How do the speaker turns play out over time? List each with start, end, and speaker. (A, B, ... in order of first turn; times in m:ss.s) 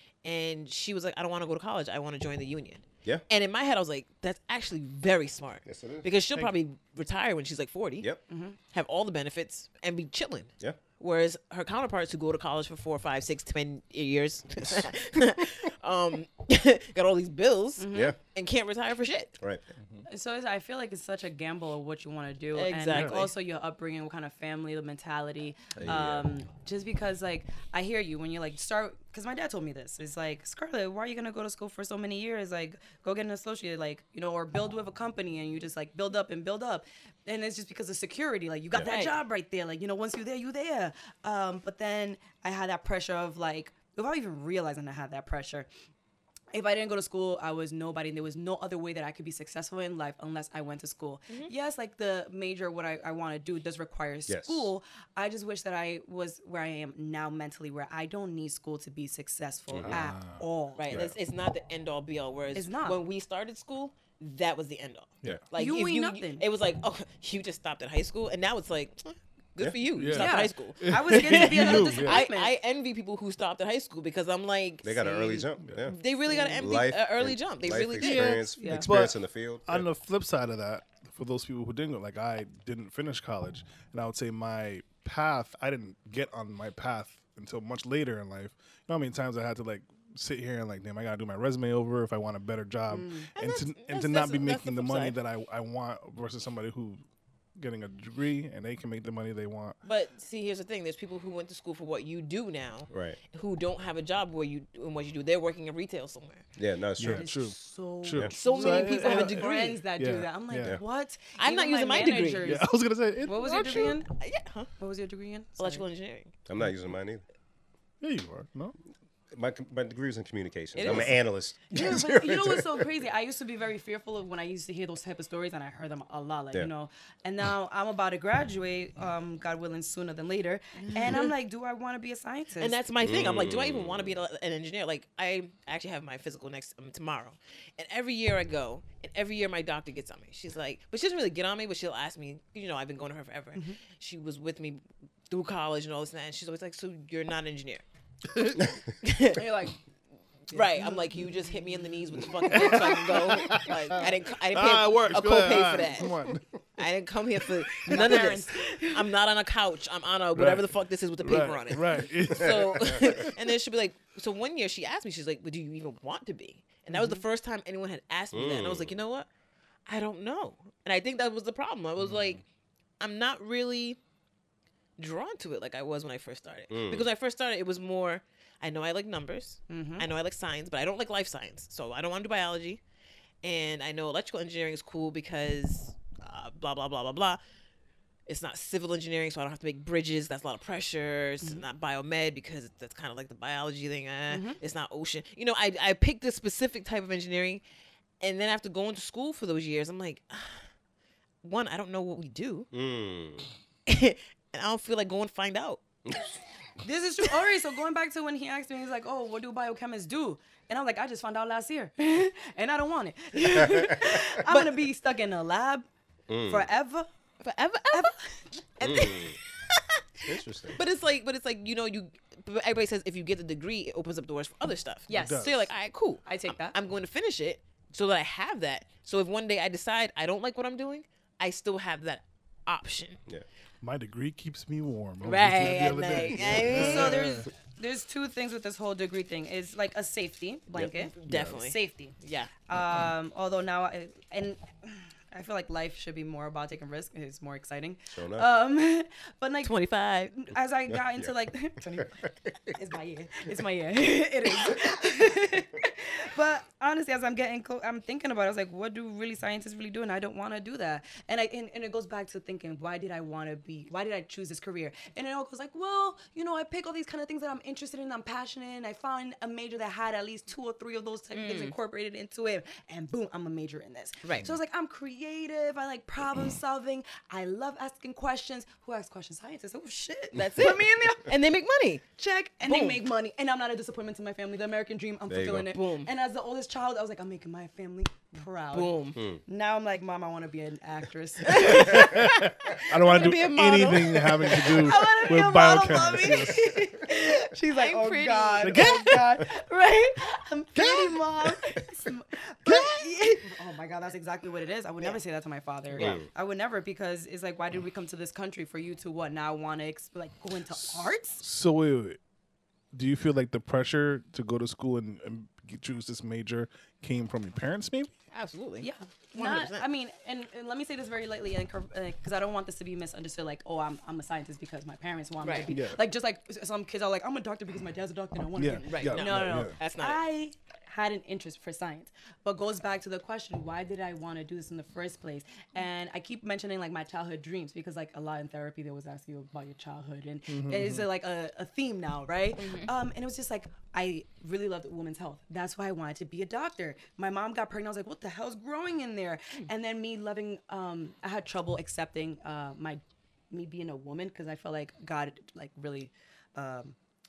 0:00.2-0:08.1 A
0:05.6-0:06.1 B
0:08.3-0:08.6 C
0:08.7-0:19.3 A
0:17.8-0:18.1 C
0:20.1-0:45.7 C
0:22.5-0:23.3 A
0:22.9-0:23.2 D
0:25.7-0:26.3 B
0:38.7-0:39.0 B
0:38.8-0:39.2 A
0:46.5-1:01.0 C
0:54.3-0:54.7 B
0:59.7-1:00.0 B
0:59.8-1:00.4 D
1:00.8-1:18.4 A
1:00.9-1:01.1 B
1:02.5-1:03.0 C
1:05.6-1:06.4 C
1:09.9-1:12.2 D
1:10.1-1:12.5 C
1:14.8-1:19.9 B
1:16.3-1:16.6 C
1:18.0-1:37.0 D
1:18.6-1:18.9 C
1:32.9-1:33.3 C
1:33.4-1:35.2 A
1:37.6-1:39.8 D
1:39.8-1:46.4 A
1:42.9-1:43.2 B
1:46.6-1:47.3 B
1:47.0-1:50.8 D
1:47.1-1:54.1 C
1:48.3-1:49.8 A
1:51.4-1:52.6 A
1:52.4-1:54.0 D
1:54.1-1:54.7 A
1:54.8-1:55.8 C
1:55.6-1:56.3 A
1:56.5-1:57.2 B
1:58.0-1:58.7 D
1:59.3-2:02.9 B
2:00.8-2:01.1 A
2:01.7-2:12.8 C
2:10.9-2:11.3 A
2:12.6-2:27.8 A
2:13.0-2:14.2 B
2:29.0-2:29.4 A
2:29.2-2:29.8 C
2:30.5-2:36.1 A
2:30.5-2:32.9 C
2:32.5-2:36.5 D
2:36.8-2:49.3 A
2:37.8-2:38.2 D
2:37.9-2:39.1 C
2:40.3-2:43.3 D
2:42.4-2:42.9 B
2:46.9-2:47.2 C
2:48.3-2:49.0 B
2:49.9-2:52.4 A
2:53.0-2:54.0 A
2:55.0-3:02.8 A
2:56.7-2:57.1 B
2:59.7-3:00.1 C
3:03.4-3:07.4 A
3:08.3-3:17.6 A
3:14.3-3:14.6 C
3:18.2-3:20.6 A
3:21.4-3:22.7 A
3:22.7-3:23.5 B
3:23.9-3:25.8 A
3:26.8-3:35.9 C
3:33.5-3:34.4 B
3:34.5-3:34.9 A
3:36.3-3:36.7 B
3:36.5-3:37.1 C
3:37.4-3:38.1 A
3:37.9-3:39.2 C
3:38.8-3:39.4 B
3:38.8-3:39.1 A
3:40.2-3:40.8 B
3:40.7-3:53.2 A
3:45.1-3:45.7 C
3:45.1-3:45.7 D
3:46.2-3:46.8 C
3:53.8-3:57.4 D
3:55.2-3:57.2 A
3:56.7-4:02.1 C
4:01.0-4:02.5 A
4:01.3-4:01.6 D
4:02.7-4:09.7 C
4:08.1-4:08.5 B
4:09.6-4:10.3 A
4:10.3-4:41.3 C
4:10.9-4:11.3 B
4:12.0-4:12.7 B
4:31.3-4:31.7 A
4:34.2-4:34.5 A
4:40.3-4:42.0 A
4:42.2-5:11.4 C
4:42.6-4:43.0 A
4:45.3-4:45.7 B
4:45.7-4:46.1 A
4:48.7-4:49.2 A
4:49.2-4:49.4 B
4:51.5-4:52.2 A
4:51.7-4:56.8 D
4:52.8-4:55.4 A
4:57.7-4:59.1 A
4:58.6-4:59.4 D
5:00.7-5:01.2 D
5:02.6-5:03.0 D
5:05.9-5:06.2 A
5:06.0-5:06.3 B
5:11.4-5:12.2 D
5:12.9-5:18.1 D
5:18.3-5:19.9 A
5:18.8-5:57.0 C
5:25.4-5:25.7 A
5:25.7-5:26.0 D
5:28.6-5:29.8 D
5:28.9-5:30.2 A
5:40.5-5:41.0 D
5:42.6-5:42.9 A